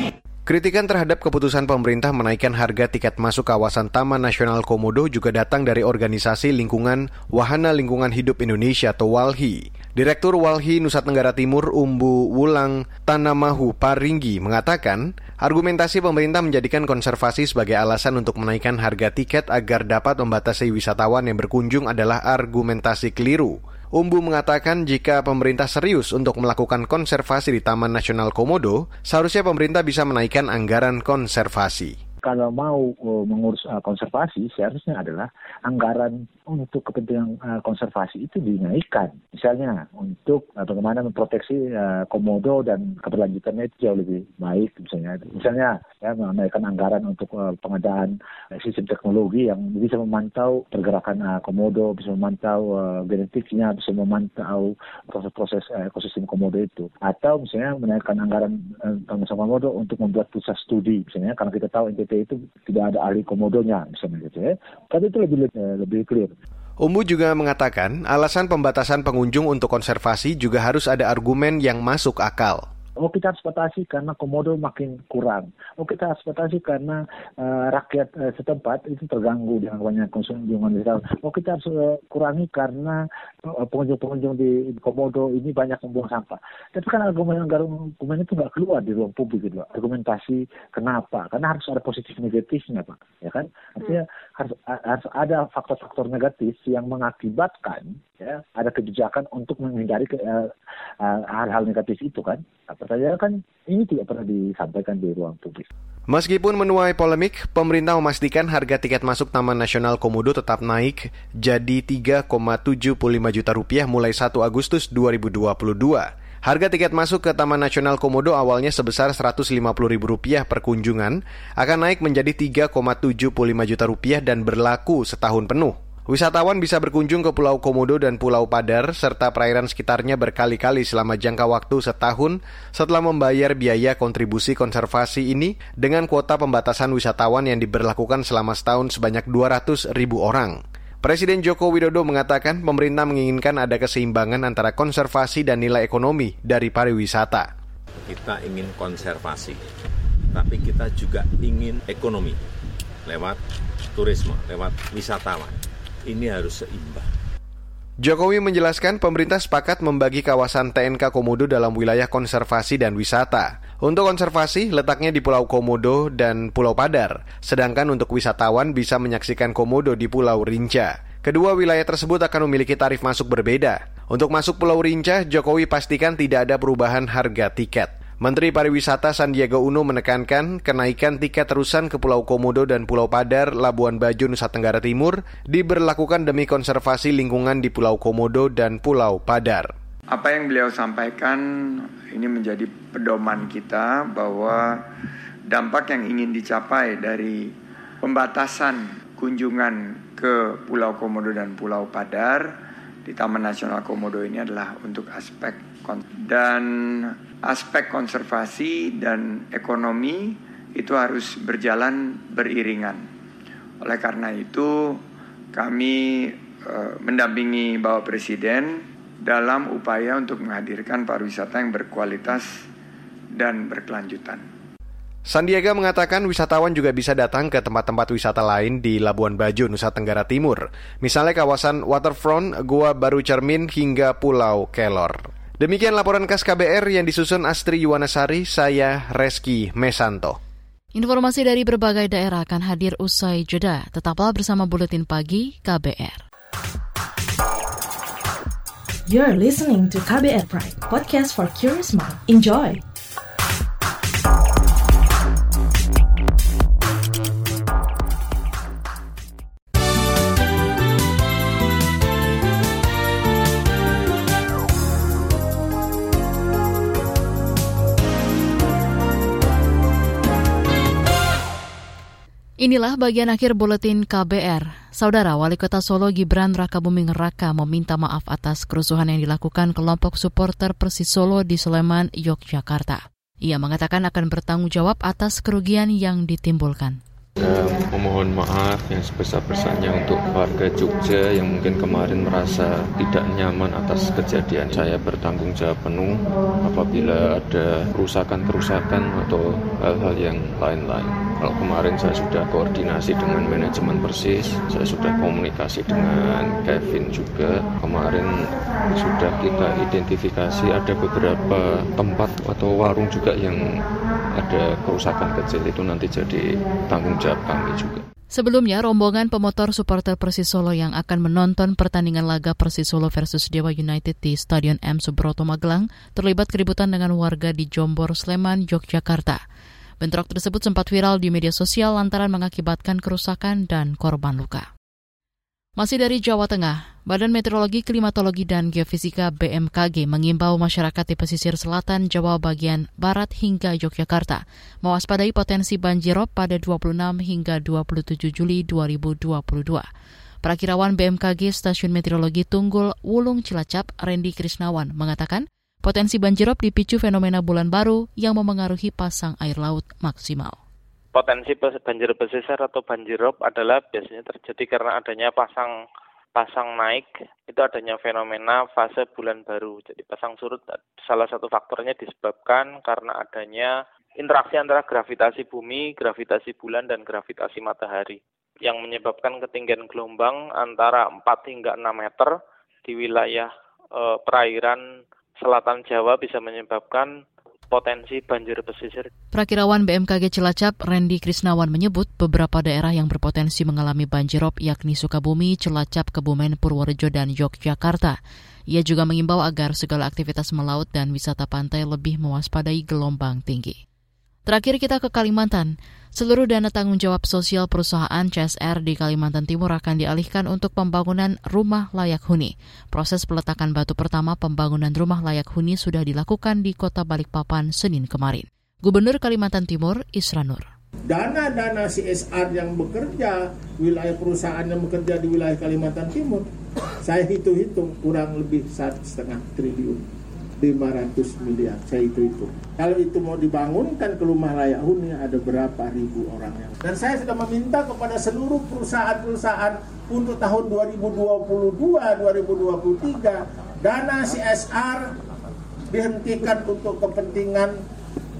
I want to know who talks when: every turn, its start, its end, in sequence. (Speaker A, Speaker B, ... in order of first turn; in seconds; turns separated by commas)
Speaker A: 0.5-32.0, Speaker B: 32.2-66.3, Speaker A: 66.8-72.6, Speaker B: 73.0-100.5, Speaker B: 101.0-105.7, Speaker A: 106.1-147.5, Speaker C: 148.1-149.6, Speaker C: 150.3-152.4, Speaker C: 153.1-153.4, Speaker C: 153.9-155.5, Speaker C: 156.1-157.1, Speaker A: 158.0-189.7, Speaker D: 190.1-194.8, Speaker D: 195.5-197.5, Speaker D: 198.0-202.5, Speaker D: 203.1-213.0, Speaker D: 213.8-215.0, Speaker D: 215.5-222.5, Speaker D: 223.3-224.4, Speaker A: 225.2-240.4, Speaker E: 240.9-246.2, Speaker F: 249.1-252.8, Speaker E: 272.6-287.0, Speaker G: 287.4-313.6, Speaker G: 314.4-318.0, Speaker E: 318.3-329.4, Speaker E: 330.0-334.7, Speaker E: 335.8-349.9, Speaker E: 350.4-360.6, Speaker H: 361.1-365.7, Speaker H: 366.3-382.3, Speaker H: 382.8-384.8, Speaker H: 385.4-387.1, Speaker H: 387.7-389.1, Speaker E: 389.3-398.2, Speaker E: 398.7-403.8, Speaker E: 404.5-420.6, Speaker I: 421.1-426.4, Speaker I: 427.0-430.0, Speaker I: 430.6-445.1, Speaker I: 445.9-447.7